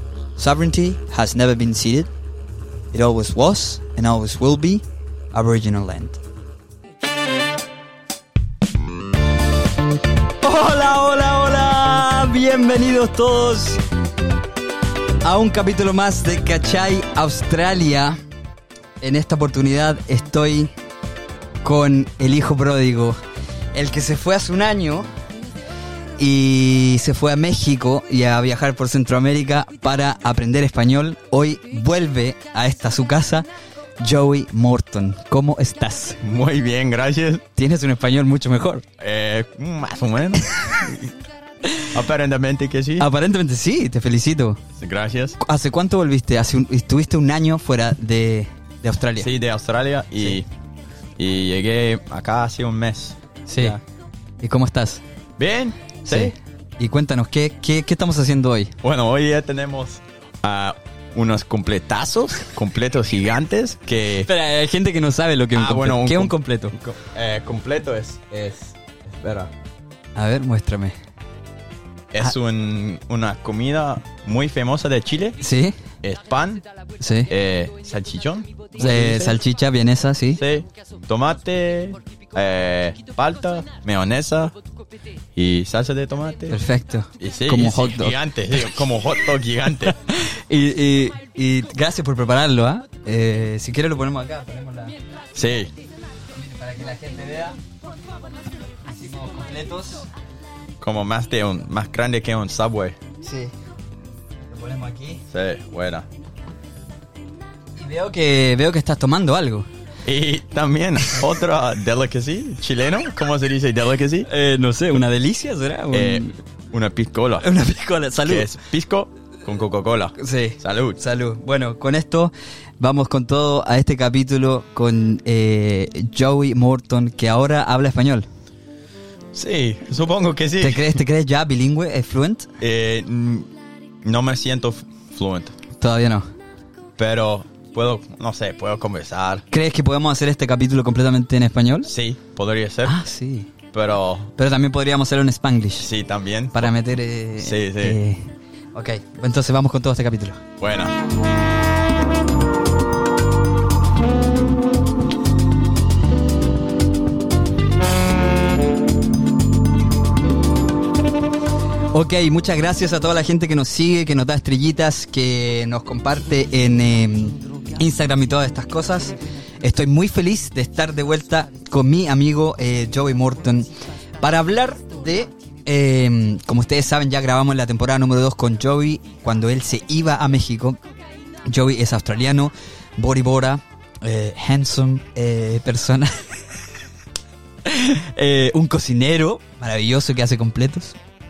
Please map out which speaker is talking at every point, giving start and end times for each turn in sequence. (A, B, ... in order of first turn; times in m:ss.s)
0:00.4-0:02.1 A
0:02.9-0:06.2 A
0:10.4-0:13.8 A
0:15.2-0:18.2 A
0:19.0-0:20.7 A
0:21.6-0:23.2 A
0:23.7-0:25.1 A
0:26.2-0:33.5 A
0:34.0-0:36.2 A
0:36.2-0:37.4 B
0:37.5-0:38.8 A
0:39.0-0:41.1 B
0:41.9-0:43.1 B
0:43.0-0:44.6 A
0:44.8-0:45.4 B
0:45.4-0:49.3 A
0:49.2-0:50.5 B
0:51.2-0:53.8 B
0:53.5-0:53.8 A
0:54.4-0:55.0 A
0:55.4-0:56.3 B
0:56.0-0:58.7 A
0:58.8-1:04.3 B
1:04.2-1:06.8 A
1:05.5-1:09.5 B
1:10.2-1:10.9 A
1:12.1-1:15.4 B
1:15.4-1:15.8 A
1:16.0-1:16.6 B
1:17.0-1:17.3 A
1:17.3-1:19.4 B
1:18.7-1:20.4 A
1:20.3-1:24.5 B
1:25.3-1:26.6 B
1:26.5-1:28.2 A
1:27.2-1:30.0 B
1:30.0-1:35.0 A
1:35.3-1:35.7 B
1:36.3-1:37.6 A
1:38.9-1:40.1 A
1:40.8-1:43.0 B
1:43.2-1:43.5 A
1:44.5-1:45.2 A
1:45.3-1:46.1 B
1:47.8-1:49.7 A
1:50.0-1:54.3 B
1:54.3-1:56.4 A
1:55.9-1:57.4 B
1:57.4-1:58.5 A
1:58.2-2:01.0 B
2:00.2-2:08.2 A
2:09.3-2:11.0 B
2:10.6-2:12.5 A
2:12.6-2:13.5 B
2:14.0-2:15.5 B
2:15.8-2:16.2 A
2:17.0-2:19.4 B
2:19.5-2:21.9 A
2:21.8-2:23.0 B
2:22.8-2:23.5 A
2:23.7-2:24.3 B
2:24.4-2:25.9 A
2:25.8-2:26.7 B
2:26.5-2:30.4 A
2:27.4-2:28.0 B
2:30.6-2:30.9 B
2:41.9-3:00.8 A
3:01.4-3:06.6 A
3:07.6-3:11.0 A